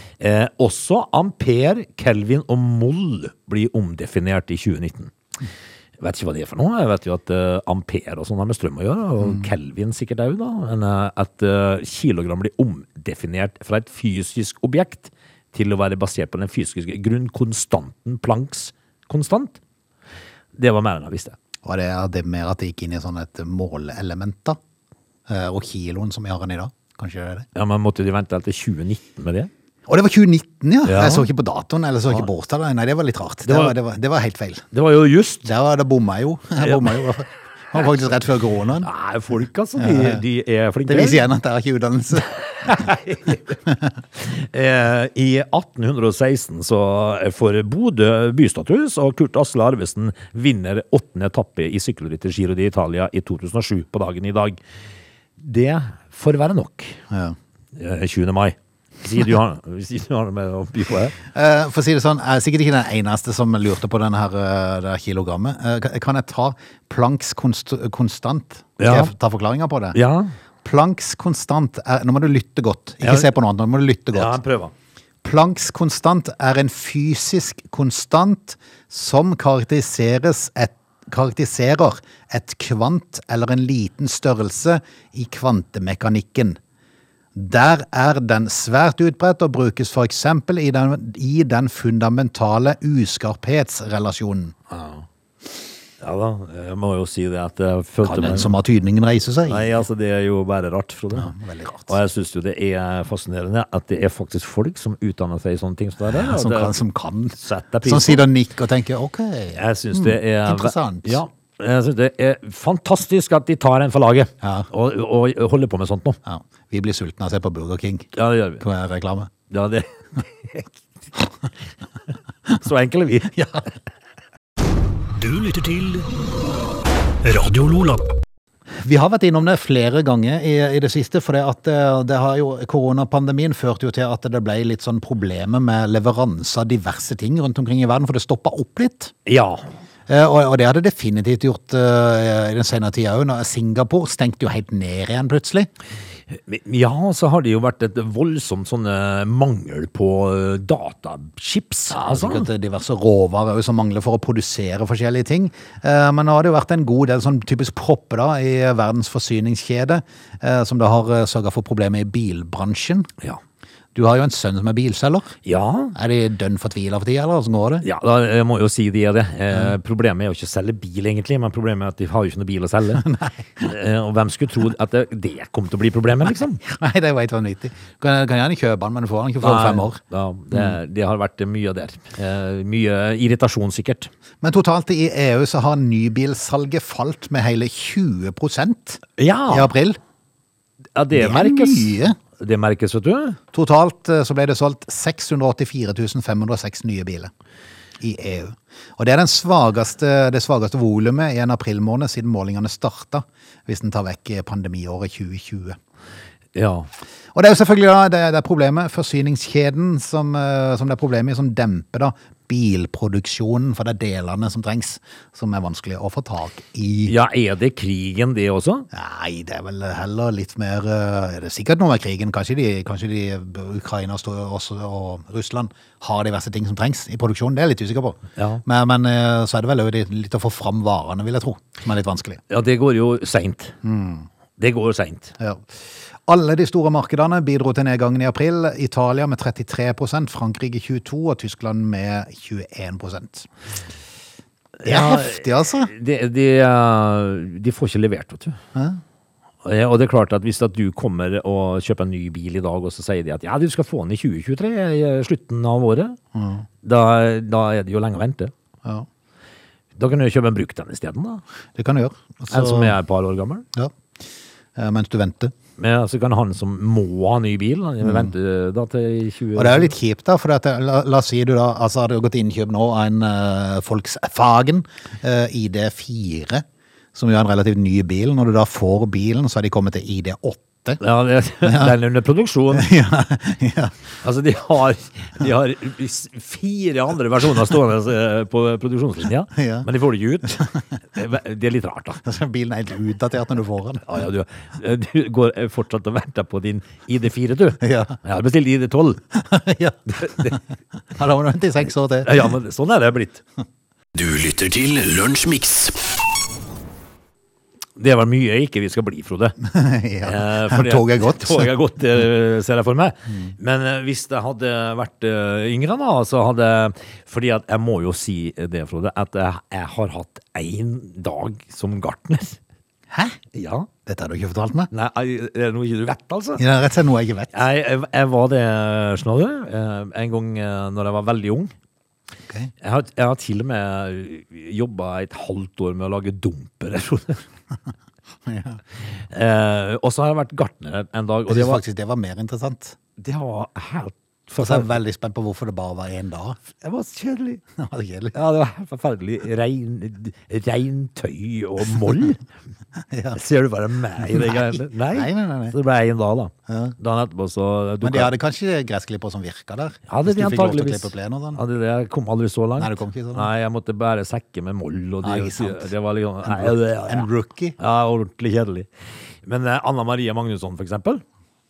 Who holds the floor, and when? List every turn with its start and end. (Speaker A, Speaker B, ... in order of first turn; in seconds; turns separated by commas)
Speaker A: 0.2-5.1, Speaker A: 6.0-19.6, Speaker B: 9.2-9.5, Speaker A: 20.6-21.4, Speaker B: 21.6-24.6, Speaker B: 25.3-27.5, Speaker A: 27.6-29.5, Speaker B: 29.9-34.7, Speaker A: 30.9-31.3, Speaker A: 33.5-33.8, Speaker A: 34.7-35.5, Speaker B: 35.4-38.9, Speaker A: 36.6-37.1, Speaker A: 38.8-41.2, Speaker B: 39.8-40.2, Speaker B: 40.9-42.9, Speaker A: 42.5-43.6, Speaker A: 44.2-54.6, Speaker A: 55.4-57.0, Speaker B: 57.1-57.4, Speaker A: 57.8-61.2, Speaker B: 61.2-70.0, Speaker A: 68.8-69.1, Speaker A: 69.9-70.3, Speaker B: 70.6-74.3, Speaker A: 73.0-73.3, Speaker A: 74.1-74.7, Speaker B: 75.2-86.6, Speaker B: 87.3-94.5, Speaker A: 94.7-95.0, Speaker A: 96.0-98.5, Speaker B: 98.0-99.8, Speaker A: 99.5-101.3, Speaker B: 101.1-101.9, Speaker A: 101.9-106.8, Speaker B: 106.0-111.2, Speaker A: 107.4-108.3, Speaker A: 109.6-116.2, Speaker B: 114.4-114.7, Speaker B: 116.3-119.3, Speaker A: 118.1-118.6, Speaker A: 119.5-120.7, Speaker A: 122.5-123.6, Speaker C: 125.2-126.1, Speaker C: 127.2-128.1, Speaker B: 128.8-139.1, Speaker A: 139.3-139.7, Speaker B: 140.1-145.7, Speaker A: 146.3-152.5, Speaker B: 151.9-163.1, Speaker B: 163.9-165.4, Speaker A: 165.4-165.9, Speaker B: 165.9-167.8, Speaker A: 167.8-176.6, Speaker B: 173.0-173.7, Speaker B: 176.6-180.0, Speaker A: 179.4-184.1, Speaker B: 184.4-190.0, Speaker A: 189.2-189.7, Speaker A: 191.0-193.4, Speaker B: 191.1-192.2, Speaker B: 193.5-197.3, Speaker B: 198.0-205.8, Speaker A: 206.5-206.9, Speaker B: 207.3-217.2, Speaker A: 217.1-218.9, Speaker B: 218.9-232.4, Speaker A: 228.4-228.6, Speaker A: 232.5-233.8, Speaker B: 233.8-234.3, Speaker A: 234.6-235.3, Speaker B: 235.4-243.5, Speaker A: 244.8-248.6, Speaker B: 244.8-245.9, Speaker B: 248.8-249.0, Speaker A: 249.6-256.2, Speaker B: 256.4-256.7, Speaker A: 256.8-258.5, Speaker A: 260.0-261.4, Speaker B: 261.8-263.0, Speaker A: 262.5-263.7, Speaker B: 264.8-265.6, Speaker A: 265.8-269.9, Speaker B: 268.0-268.3, Speaker B: 269.6-281.0, Speaker A: 281.0-282.9, Speaker B: 281.6-281.9, Speaker B: 282.7-283.9, Speaker A: 284.2-292.2, Speaker B: 289.5-289.9, Speaker B: 292.2-294.1, Speaker A: 294.0-299.2, Speaker B: 297.8-298.2, Speaker B: 299.3-300.6, Speaker A: 300.1-300.6, Speaker B: 301.1-302.5, Speaker A: 302.2-303.4, Speaker C: 304.1-306.0, Speaker A: 308.0-309.6, Speaker B: 309.6-311.7, Speaker A: 310.2-322.6, Speaker B: 323.1-323.4, Speaker A: 323.5-323.9, Speaker B: 324.1-324.9, Speaker A: 324.9-326.6, Speaker B: 326.6-327.6, Speaker A: 327.5-331.7, Speaker A: 332.8-337.4, Speaker B: 338.5-338.8, Speaker A: 339.3-341.8, Speaker B: 341.5-343.0, Speaker A: 343.2-345.0, Speaker B: 344.6-346.6, Speaker A: 346.8-347.6, Speaker B: 347.8-348.4, Speaker A: 348.3-352.4, Speaker B: 353.0-353.4, Speaker A: 353.4-358.3, Speaker B: 354.2-355.8, Speaker B: 356.7-357.0, Speaker B: 358.0-361.6, Speaker A: 360.1-368.9, Speaker B: 362.8-363.5, Speaker B: 365.2-365.9, Speaker B: 366.4-367.8, Speaker A: 369.4-371.2